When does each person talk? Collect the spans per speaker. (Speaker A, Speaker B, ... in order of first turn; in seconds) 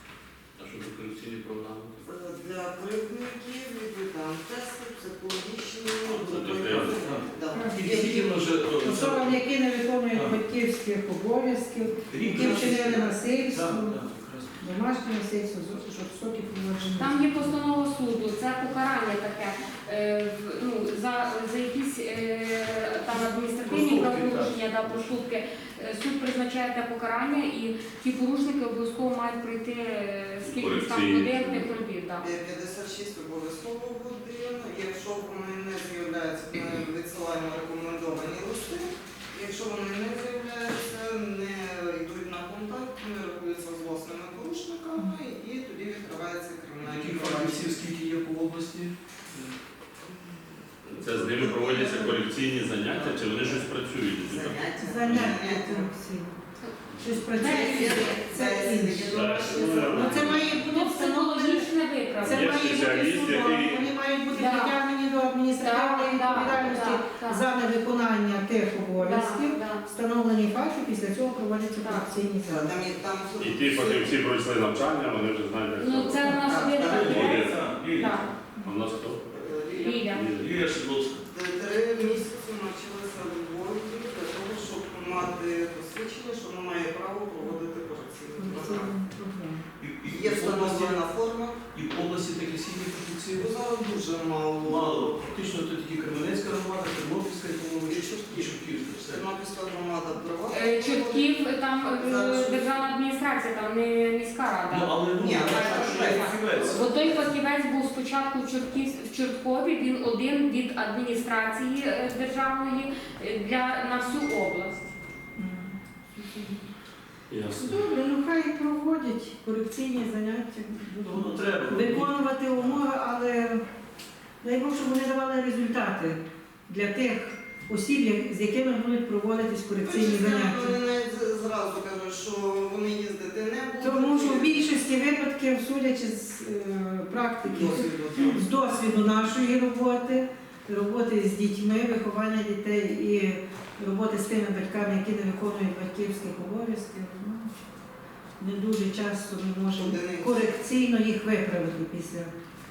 Speaker A: 0.6-2.0, 6.0-7.0, 30.4-31.7, 51.0-55.3, 59.1-60.6, 62.2-63.9, 73.4-76.3, 77.0-77.6, 78.6-79.2, 80.0-80.5, 117.3-117.7
Speaker B: 2.0-8.3, 32.2-47.6, 50.0-52.3, 52.8-53.6, 54.2-55.9, 57.4-60.6, 72.5-74.2, 76.3-77.1, 79.3-80.0, 81.3-88.9, 90.0-91.6, 93.4-95.1, 97.8-98.5, 99.1-102.8, 105.2-107.3, 129.8-134.8, 137.4-138.5, 149.8-150.4
Speaker C: 6.7-9.4, 10.1-10.4, 12.1-14.6, 23.6-25.1, 46.8-49.5, 76.8-78.2, 80.3-81.3, 89.8-91.0, 91.7-94.0, 94.6-99.3, 104.7-106.8, 121.0-122.8
Speaker D: 7.5-7.8, 8.8-14.0, 14.6-17.5, 54.8-56.3, 57.0-59.2, 59.7-61.7, 62.2-72.8, 88.3-89.7, 115.3-116.6, 117.6-123.6, 124.4-130.8, 133.8-147.5, 148.4-152.3
Speaker E: 17.0-32.3, 57.4-58.1, 60.5-62.8, 64.3-64.8, 65.6-67.4, 69.0-69.9, 71.8-72.1, 75.8-78.3, 79.7-80.3, 100.5-114.8